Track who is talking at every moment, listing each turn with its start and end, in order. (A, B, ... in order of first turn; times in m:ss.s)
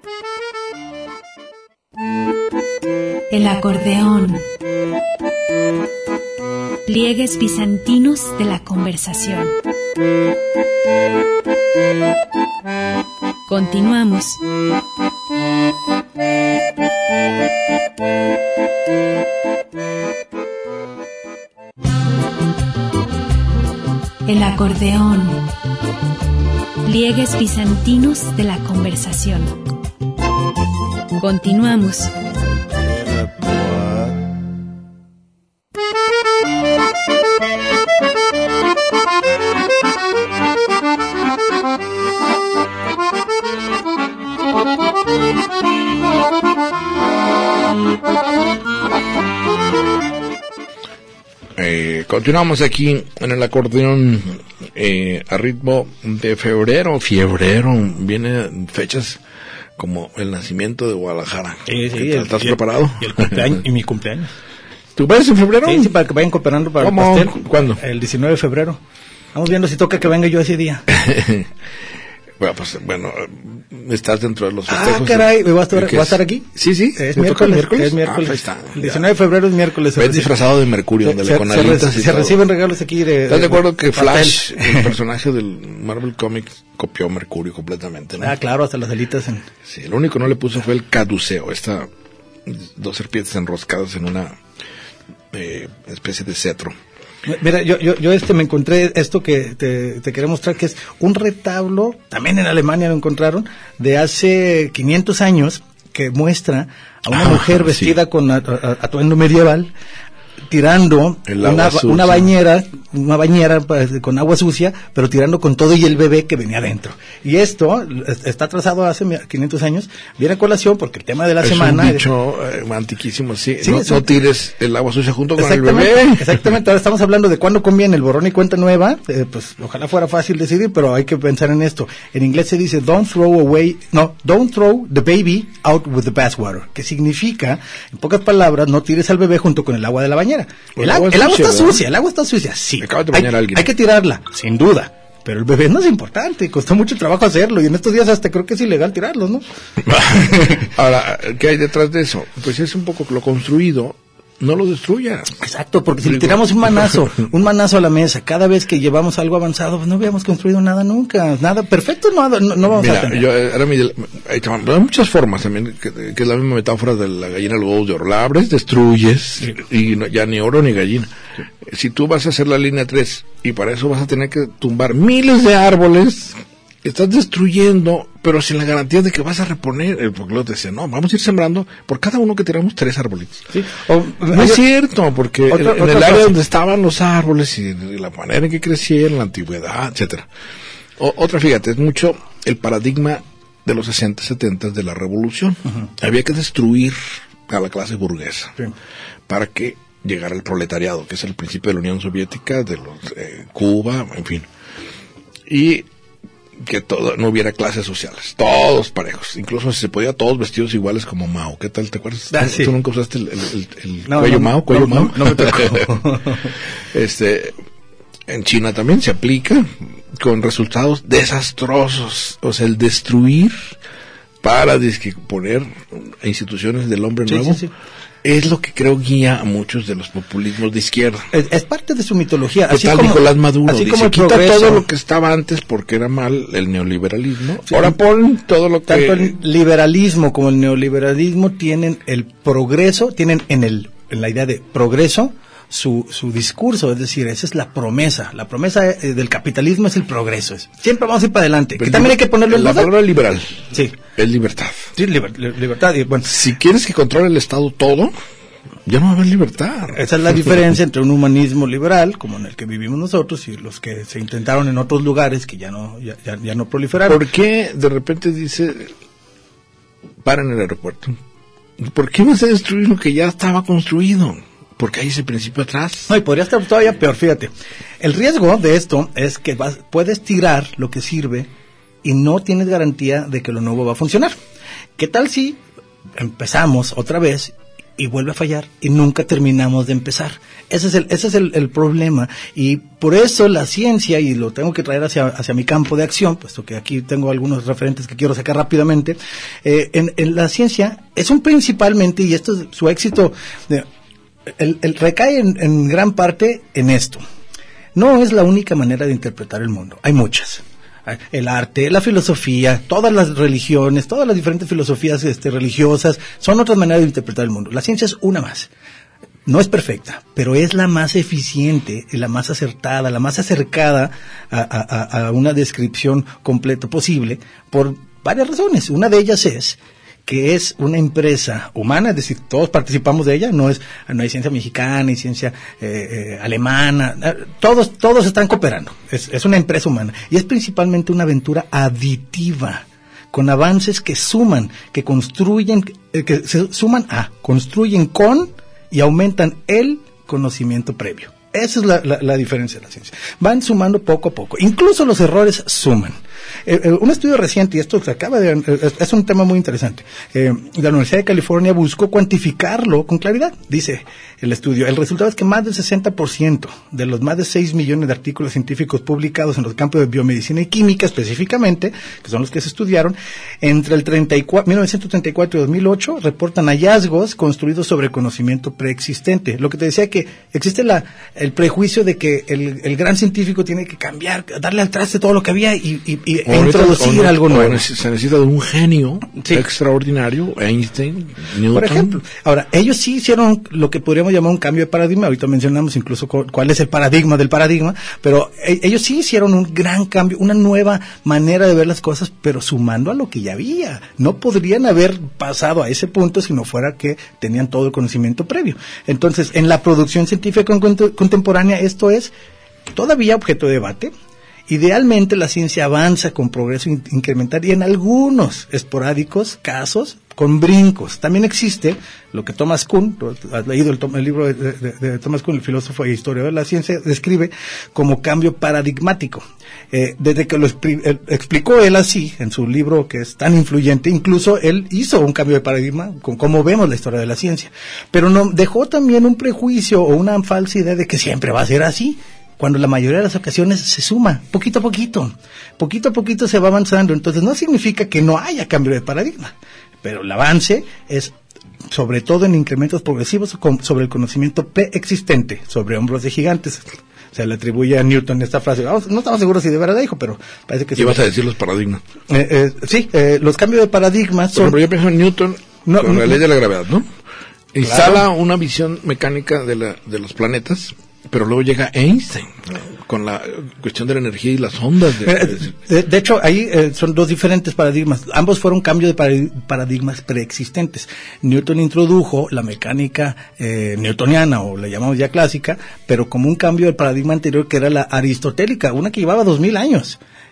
0:03.3-0:04.5 A
0:06.9-0:09.6 A
0:13.5-0:14.4 A
0:24.2-0:25.5 A
0:26.8-0:29.6 A
0:31.2-0:32.1 A
0:51.6-0:59.2 B
0:59.8-1:03.6 B
1:01.7-1:04.3 C
1:05.0-1:05.9 B
1:05.6-1:08.8 C
1:06.8-1:07.8 B
1:09.3-1:10.9 C
1:10.9-1:11.5 B
1:12.4-1:19.1 B
1:14.7-1:20.4 C
1:20.0-1:22.4 B
1:21.0-1:24.9 C
1:23.3-1:28.4 B
1:28.2-1:29.5 C
1:29.7-1:31.9 B
1:32.5-1:34.4 B
1:35.3-1:36.8 B
1:37.3-1:49.7 C
1:47.1-1:47.9 B
1:50.5-2:02.0 C
1:51.3-1:52.3 B
2:01.4-2:06.5 B
2:03.6-2:04.2 C
2:05.4-2:29.4 C
2:20.8-2:21.8 B
2:22.8-2:23.7 B
2:29.8-2:35.4 B
2:30.0-2:30.6 C
2:35.4-2:43.3 C
2:36.0-2:37.1 B
2:42.7-3:03.4 B
3:03.5-3:04.6 C
3:04.3-3:10.3 B
3:05.5-3:06.4 C
3:11.0-3:18.6 B
3:19.3-3:24.5 B
3:25.5-3:25.9 B
3:26.6-3:35.9 B
3:32.3-3:32.8 C
3:34.1-3:36.6 C
3:36.9-3:37.5 B
3:38.3-3:43.8 B
3:44.4-3:47.6 B
3:47.3-3:47.7 C
3:48.2-3:51.3 B
3:51.3-3:54.8 C
3:52.7-3:59.4 B
3:57.7-3:58.0 C
3:58.9-4:12.9 C
4:11.8-4:14.9 B
4:13.7-4:14.0 C
4:15.0-4:16.4 C
4:16.2-4:18.1 B
4:18.9-4:20.5 B
4:19.9-4:27.2 C
4:27.0-4:28.9 B
4:30.2-4:31.2 B
4:31.8-4:36.1 B
4:36.1-4:41.5 C
4:42.0-4:44.4 C
4:45.0-4:45.6 C
4:46.2-5:03.9 C
5:04.5-5:07.2 C
5:08.0-5:18.7 C
5:19.5-6:27.8 C
6:26.5-6:32.2 B
6:29.4-6:29.6 C
6:31.7-6:52.3 C
6:52.9-6:54.1 C
6:54.7-7:31.3 C
7:31.9-7:41.2 C
7:41.0-7:42.0 B
7:42.3-7:44.8 C
7:44.5-7:47.1 B
7:45.8-7:46.4 C
7:47.7-7:55.7 B
7:47.8-7:48.2 C
7:55.2-8:10.2 C